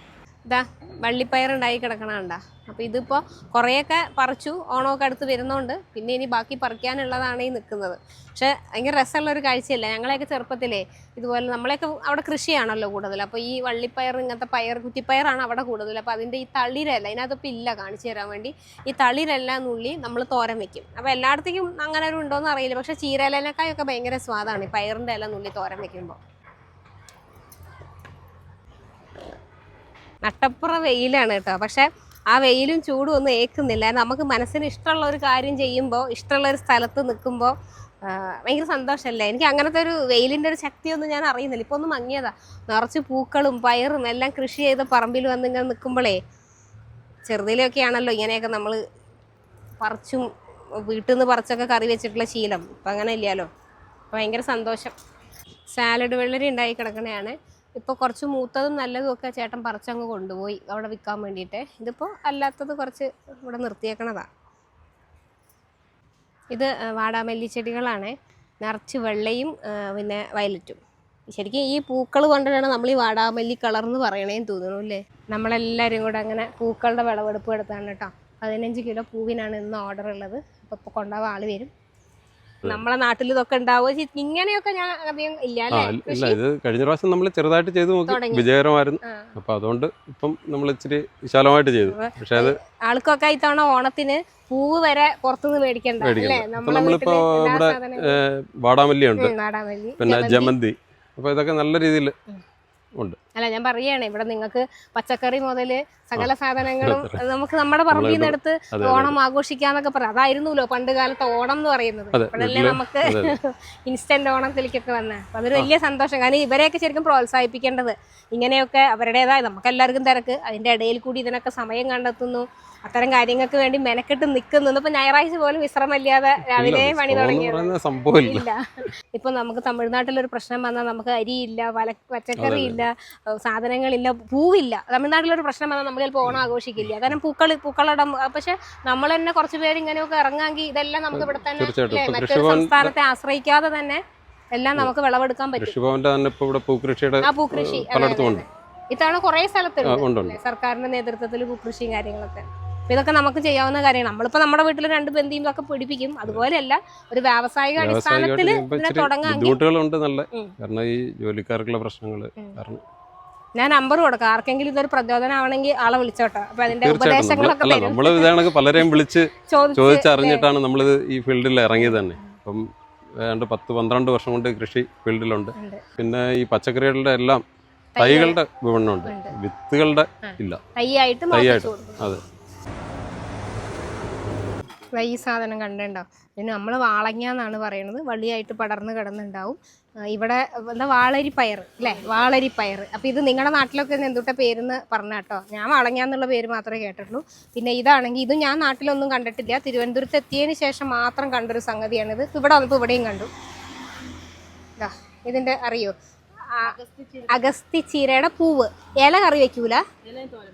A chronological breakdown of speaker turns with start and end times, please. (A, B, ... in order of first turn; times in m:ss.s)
0:00.4-0:26.2 A
0:30.2-0:37.5 A
0:38.0-0:46.2 A
0:47.2-0:48.8 A
0:49.8-0:50.2 A
0:50.8-0:53.5 A
0:54.1-0:54.9 A
0:55.7-1:04.2 A
1:06.5-1:10.8 A
1:11.3-1:21.7 A
1:22.6-1:26.4 A
1:25.7-1:32.6 B
1:28.1-1:28.5 A
1:29.0-1:29.4 A
1:31.8-1:38.2 A
1:36.0-1:39.3 B
1:39.2-1:40.5 A
1:40.0-1:42.1 B
1:43.4-2:08.6 A
1:46.2-1:47.2 B
1:47.9-1:49.2 B
1:52.1-1:53.4 B
2:06.4-2:08.5 B
2:09.1-2:24.0 A
2:12.4-2:12.8 B
2:21.1-2:22.9 B
2:24.5-2:25.7 A
2:25.6-2:28.4 B
2:27.2-2:39.6 A
2:29.8-2:30.4 B
2:37.8-2:42.8 B
2:43.6-2:48.9 A
2:46.7-2:52.6 B
2:49.5-2:50.5 A
2:51.8-2:52.3 A
2:53.2-2:57.4 B
2:55.6-2:55.8 A
2:58.0-2:58.4 A
2:58.0-3:00.6 B
2:59.0-2:59.3 A
3:00.2-3:02.0 A
3:01.3-3:02.2 B
3:04.9-3:09.6 A
3:10.1-3:23.3 A
3:24.8-3:25.9 A
3:26.5-3:29.8 A